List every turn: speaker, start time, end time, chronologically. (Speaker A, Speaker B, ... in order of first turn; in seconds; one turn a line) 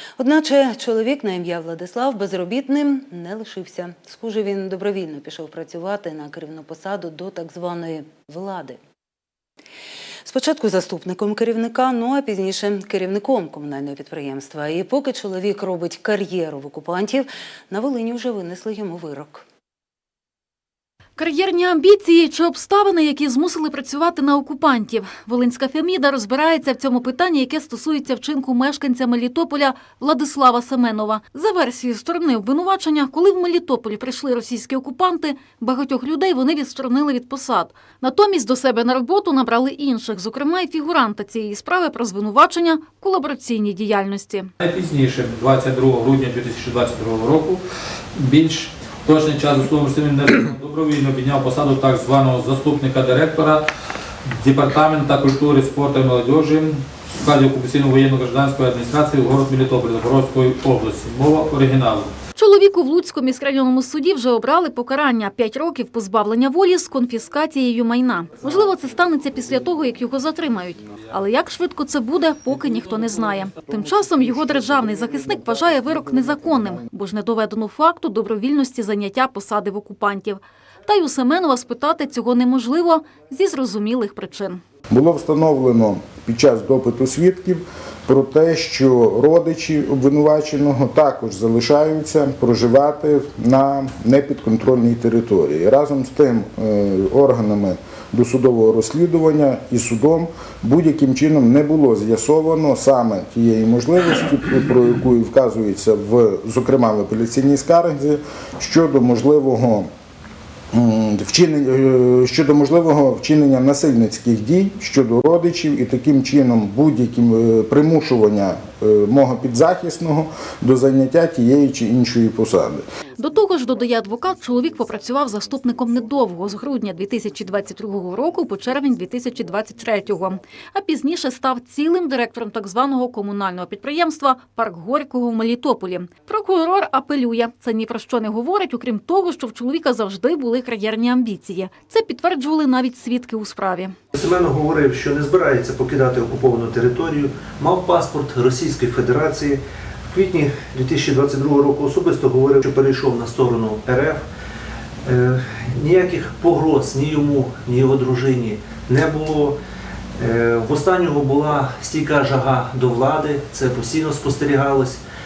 Speaker A: 0.2-8.8
Speaker A: 10.2-19.4
Speaker B: 21.2-44.5
Speaker C: 44.6-47.6
Speaker C: 48.1-53.7
Speaker C: 54.3-62.1
Speaker B: 62.4-84.6
Speaker D: 84.9-109.9
Speaker D: 110.7-122.8
Speaker B: 123.2-143.9
Speaker E: 144.1-154.2
Speaker E: 155.1-159.6
Speaker E: 160.2-165.0